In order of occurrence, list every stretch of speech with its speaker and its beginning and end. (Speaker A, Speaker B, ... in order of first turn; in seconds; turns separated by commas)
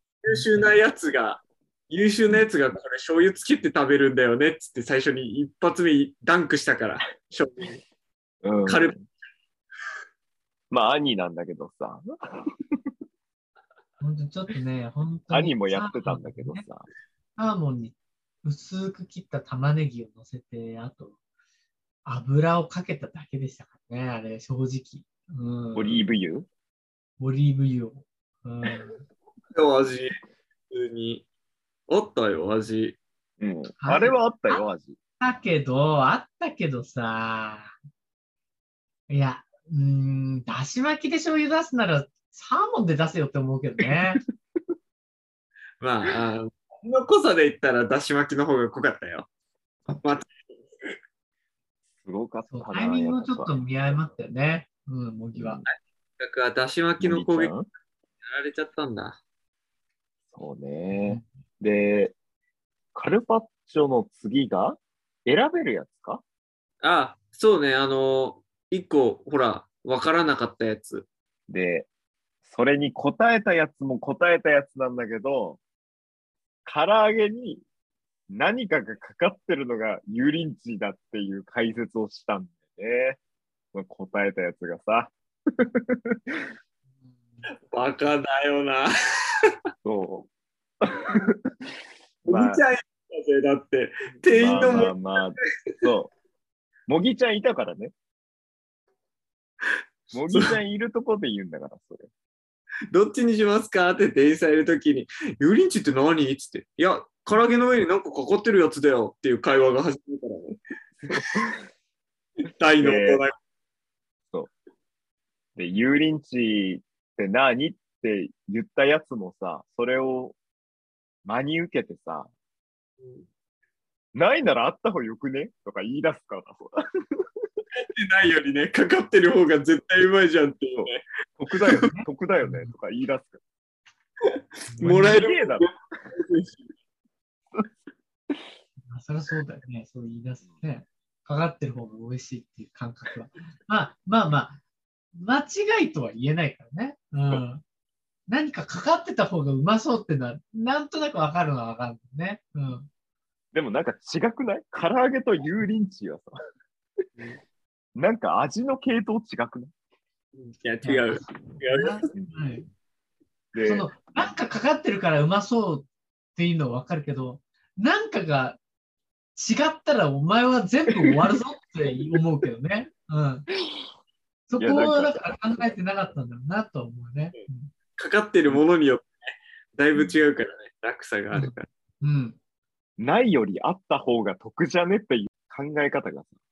Speaker A: 0.2-7.8, Speaker B: 0.3-0.8, Speaker C: 8.4-9.1, Speaker A: 8.7-8.9, Speaker C: 10.7-12.4, Speaker B: 14.0-16.6, Speaker C: 15.3-16.9, Speaker B: 17.4-21.2, Speaker B: 22.1-26.0, Speaker C: 25.8-26.5, Speaker B: 27.2-29.0, Speaker A: 29.5-30.1, Speaker A: 30.7-31.3, Speaker A: 31.9-33.0, Speaker C: 33.4-35.0, Speaker B: 33.8-34.6, Speaker B: 35.2-37.7, Speaker B: 39.1-44.2, Speaker A: 45.8-49.3, Speaker A: 50.0-50.4, Speaker C: 52.0-53.5, Speaker B: 52.5-55.6, Speaker C: 55.4-55.6, Speaker A: 55.6-57.6, Speaker C: 57.0-57.7, Speaker A: 58.2-59.2, Speaker C: 60.3-62.1, Speaker B: 60.9-61.2, Speaker C: 63.0-66.2, Speaker A: 66.8-71.1, Speaker C: 71.5-71.9, Speaker C: 72.5-75.6, Speaker C: 76.7-77.7, Speaker C: 78.3-83.2, Speaker C: 83.7-86.4, Speaker A: 87.7-88.9, Speaker C: 89.8-90.3, Speaker C: 90.9-91.3, Speaker C: 92.2-92.7, Speaker A: 92.3-94.9, Speaker C: 94.2-96.1, Speaker C: 96.9-97.9, Speaker C: 100.1-102.1, Speaker A: 100.3-100.5, Speaker A: 102.9-110.6, Speaker C: 111.0-111.6, Speaker A: 112.4-113.3, Speaker C: 112.8-113.2, Speaker C: 115.6-120.4, Speaker C: 121.2-122.3, Speaker A: 123.0-123.3, Speaker C: 124.1-126.8, Speaker A: 127.8-131.0, Speaker C: 130.8-133.4, Speaker B: 131.7-132.7, Speaker A: 134.2-136.7, Speaker B: 134.7-135.2, Speaker C: 134.8-135.7, Speaker B: 138.9-144.6, Speaker B: 145.1-147.6, Speaker B: 148.3-152.9, Speaker C: 153.5-156.3, Speaker C: 158.0-159.7, Speaker A: 160.3-162.0, Speaker B: 160.8-162.7, Speaker C: 163.5-163.9, Speaker B: 163.6-168.6, Speaker B: 169.4-173.5, Speaker B: 174.5-177.7, Speaker C: 174.6-175.3, Speaker A: 178.0-181.7, Speaker C: 179.9-180.2, Speaker B: 181.3-182.4, Speaker C: 183.0-186.3